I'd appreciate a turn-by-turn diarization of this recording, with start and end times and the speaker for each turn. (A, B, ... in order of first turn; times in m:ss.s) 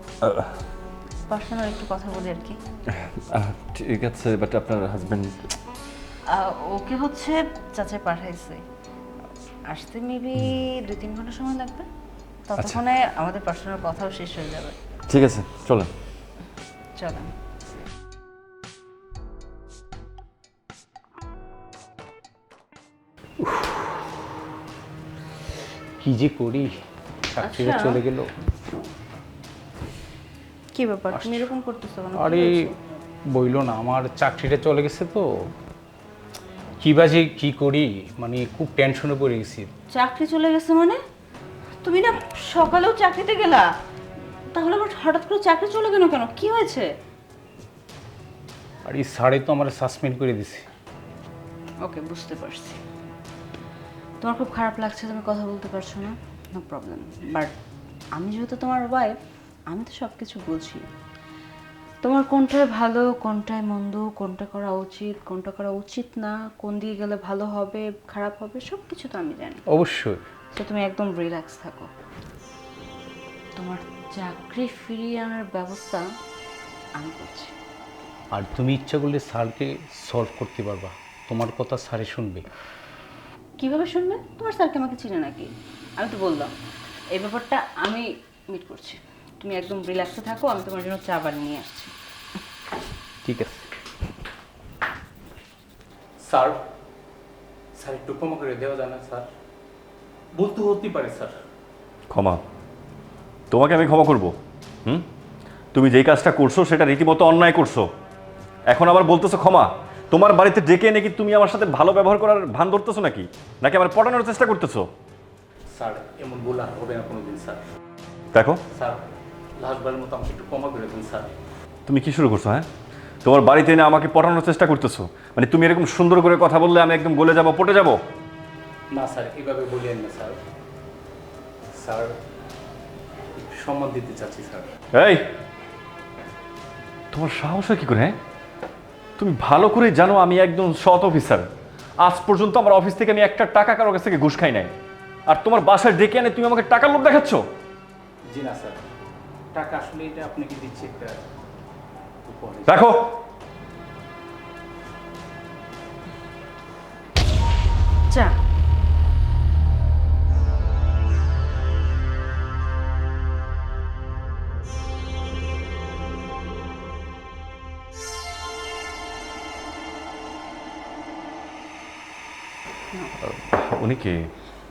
0:00.2-0:00.6 A
0:01.3-0:02.6 B
0:02.9-0:05.4 A
0:06.3-0:08.6 B
0:09.7-0:11.9 B
0:12.5-0:14.8 B
0:15.1-0:15.9 A
0:17.0-0:17.3 B
0:23.4-0:24.0 C
0:26.0-0:28.3 C
0:27.4-0:28.0 B
0:30.7-0:32.8 B
0:31.1-0:31.5 C
0:32.1-0:32.7 C
0:33.3-0:35.5 C
0:36.8-0:39.7 C
0:39.9-0:41.0 B
0:41.8-0:43.7 B
0:44.5-0:46.9 B
0:48.8-0:50.6 C
0:51.8-0:52.8 B
0:54.2-0:57.5 B
0:58.2-0:59.2 B
0:59.7-1:00.8 B
1:02.0-1:09.6 B
1:09.7-1:10.2 C
1:10.5-1:11.9 B
1:13.6-1:16.0 B
1:17.0-1:17.5 B
1:18.3-1:22.4 C
1:23.6-1:26.5 B
1:27.1-1:31.9 B
1:33.2-1:33.7 C
1:36.2-1:36.6 C
1:37.8-1:39.3 C
1:40.3-1:41.4 C
1:42.1-1:42.4 A
1:43.5-1:44.3 A
1:45.7-1:47.8 A
1:48.7-1:54.8 A
1:55.7-1:57.6 C
1:58.3-1:58.6 A
1:58.7-1:59.0 C
1:59.6-2:01.3 C
2:01.9-2:02.7 A
2:03.2-2:08.0 A
2:08.9-2:10.4 C
2:11.7-2:12.1 C
2:13.4-2:14.7 C
2:14.9-2:15.2 A
2:17.1-2:18.1 A
2:19.2-2:21.4 A
2:22.0-2:24.7 A
2:25.3-2:27.4 A
2:28.3-2:28.8 C
2:29.5-2:31.2 C
2:32.2-2:32.9 C
2:32.7-2:33.2 A
2:38.1-2:38.4 B
2:53.2-2:54.2 A